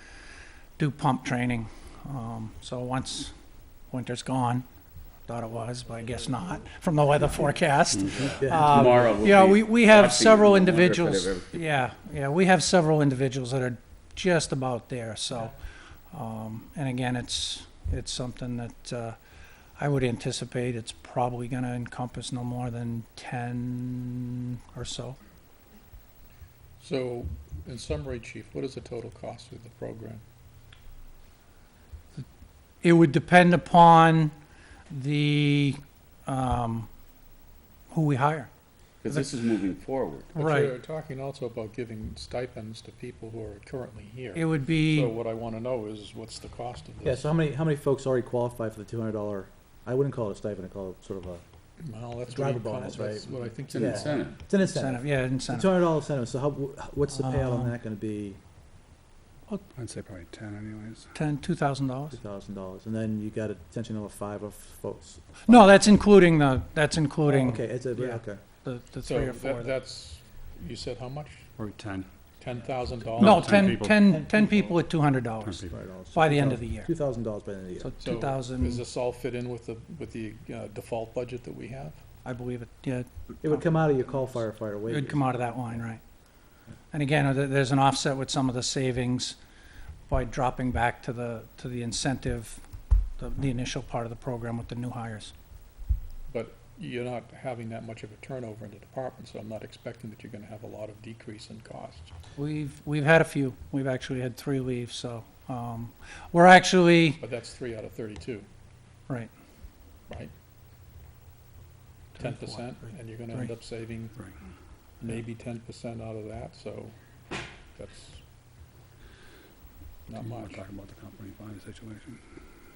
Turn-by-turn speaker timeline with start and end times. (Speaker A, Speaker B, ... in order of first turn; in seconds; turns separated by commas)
Speaker A: 0.8-3.3, Speaker A: 3.9-4.6, Speaker A: 5.3-15.5, Speaker B: 8.0-8.3, Speaker C: 8.3-11.6, Speaker D: 8.4-9.1, Speaker A: 16.1-19.2, Speaker A: 19.8-25.2, Speaker E: 26.8-30.2, Speaker A: 32.8-34.3, Speaker A: 34.9-36.9, Speaker A: 37.9-38.5, Speaker C: 39.0-40.3, Speaker E: 40.3-47.3, Speaker A: 40.4-40.7, Speaker A: 44.3-45.1, Speaker D: 47.0-51.4, Speaker E: 51.8-54.3, Speaker D: 52.2-58.4, Speaker C: 53.7-54.4, Speaker A: 54.6-55.7, Speaker A: 57.1-57.8, Speaker B: 59.8-61.1, Speaker A: 61.1-62.2, Speaker D: 62.1-65.8, Speaker A: 65.5-69.7, Speaker D: 67.3-68.4, Speaker E: 69.0-71.5, Speaker B: 71.6-72.1, Speaker E: 72.4-73.7, Speaker B: 73.2-74.2, Speaker A: 73.2-75.6, Speaker D: 74.0-74.8, Speaker B: 75.4-75.7, Speaker D: 75.7-77.9, Speaker A: 76.1-76.9, Speaker A: 77.8-78.8, Speaker E: 78.0-82.0, Speaker A: 82.2-83.7, Speaker D: 83.4-85.2, Speaker A: 84.9-86.0, Speaker A: 86.9-89.4, Speaker A: 90.1-92.6, Speaker A: 93.2-95.3, Speaker E: 96.3-102.1, Speaker A: 102.4-107.2, Speaker E: 107.2-108.5, Speaker A: 112.2-112.7, Speaker E: 112.2-114.2, Speaker E: 115.0-116.9, Speaker E: 117.8-118.2, Speaker E: 120.1-120.6, Speaker B: 120.1-122.2